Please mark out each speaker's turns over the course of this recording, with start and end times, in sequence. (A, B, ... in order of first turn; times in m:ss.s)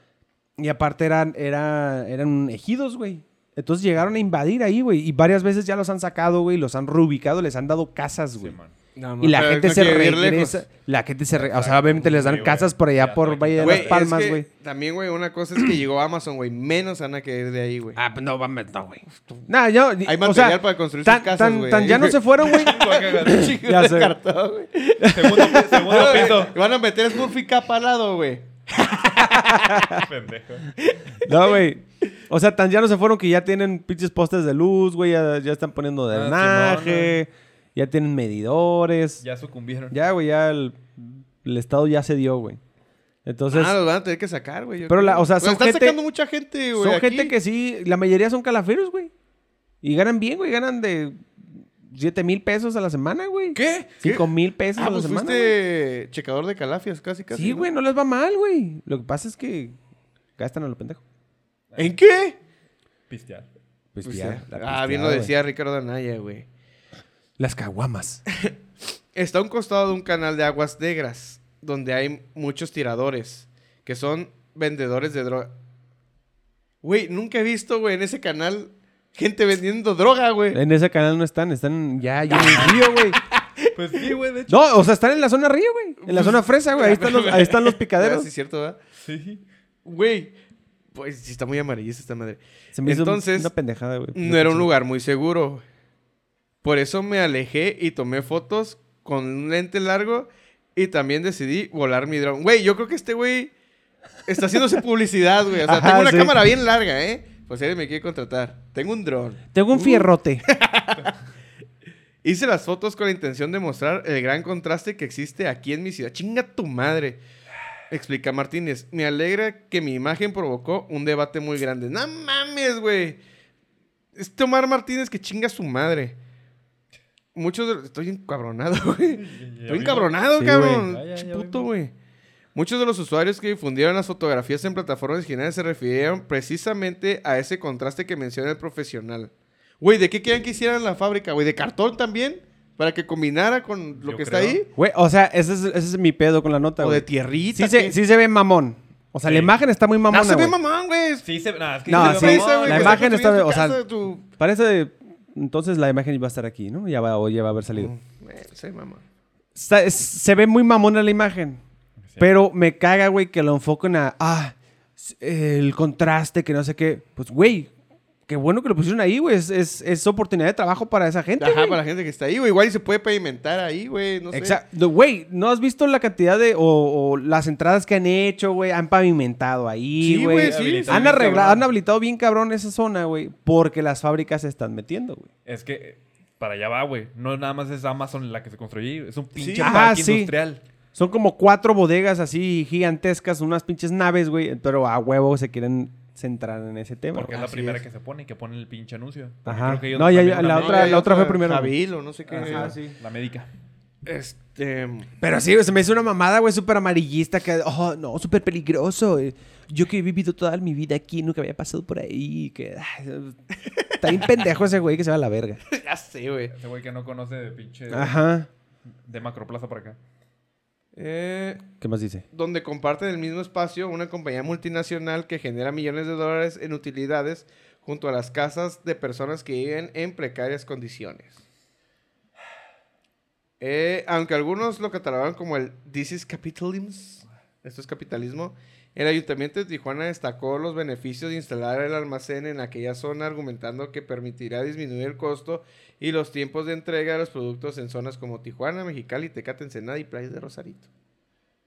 0:00.6-0:08.6 A
0:08.4-0:08.8 B
0:09.0-0:10.6 C
0:09.2-0:14.5 A
0:11.3-0:14.1 B
0:13.6-0:18.0 C
0:18.0-0:24.2 A
0:20.0-0:29.8 C
0:22.4-0:23.6 B
0:25.0-0:26.3 A
0:25.1-0:26.6 B
0:29.2-0:30.0 A
0:30.0-0:30.7 B
0:30.8-0:31.6 C
0:31.2-0:39.2 A
0:36.1-0:37.2 B
0:39.2-0:40.0 B
0:39.9-0:42.6 A
0:43.2-0:43.8 A
0:43.5-0:47.3 C
0:44.9-0:46.0 A
0:46.7-0:49.1 A
0:49.8-0:55.6 A
0:53.6-0:57.7 C
0:57.3-0:59.8 A
1:00.4-1:01.0 A
1:01.7-1:02.0 B
1:01.8-1:02.4 C
1:03.1-1:03.5 B
1:04.0-1:05.3 A
1:04.0-1:06.5 C
1:07.4-1:08.2 A
1:09.1-1:15.5 C
1:16.8-1:20.6 C
1:20.5-1:23.2 A
1:22.3-1:24.1 C
1:22.4-1:22.8 B
1:23.7-1:24.6 B
1:24.5-1:28.3 A
1:26.0-1:28.8 C
1:29.0-1:29.4 B
1:29.8-1:30.3 C
1:30.9-1:33.5 C
1:32.8-1:34.7 A
1:34.1-1:35.6 C
1:36.6-1:43.5 C
1:44.3-1:51.1 C
1:45.6-1:46.3 A
1:49.5-1:50.4 A
1:52.2-1:57.2 C
1:57.9-2:03.2 C
2:04.2-2:06.2 C
2:07.4-2:11.9 C
2:09.1-2:11.7 B
2:10.4-2:10.8 A
2:12.6-2:24.7 C
2:24.0-2:24.6 B
2:24.8-2:30.6 A
2:26.8-2:28.0 C
2:29.2-2:29.6 B
2:30.1-2:31.3 C
2:31.2-2:33.1 B
2:31.9-2:33.8 A
2:31.9-2:34.3 C
2:34.4-2:37.9 A
2:37.7-2:39.0 C
2:39.6-2:41.6 A
2:42.0-2:42.3 B
2:42.2-2:47.7 A
2:48.3-2:51.8 A
2:51.4-2:54.6 C
2:54.3-3:05.3 A
3:00.0-3:01.5 C
3:00.4-3:01.7 B
3:05.5-3:10.6 B
3:09.4-3:09.8 C
3:09.6-3:10.3 A
3:11.0-3:17.5 A
3:17.1-3:20.9 B
3:17.3-3:17.8 C
3:19.4-3:21.8 A
3:20.5-3:22.8 C
3:22.3-3:23.5 B
3:22.4-3:23.0 A
3:24.0-3:25.1 C
3:25.2-3:35.6 A
3:35.7-3:36.5 C
3:36.5-3:38.2 B
3:37.9-3:38.5 A
3:38.9-3:40.0 B
3:41.0-3:41.7 C
3:41.8-3:42.2 A
3:42.3-3:51.4 C
3:53.6-4:10.9 C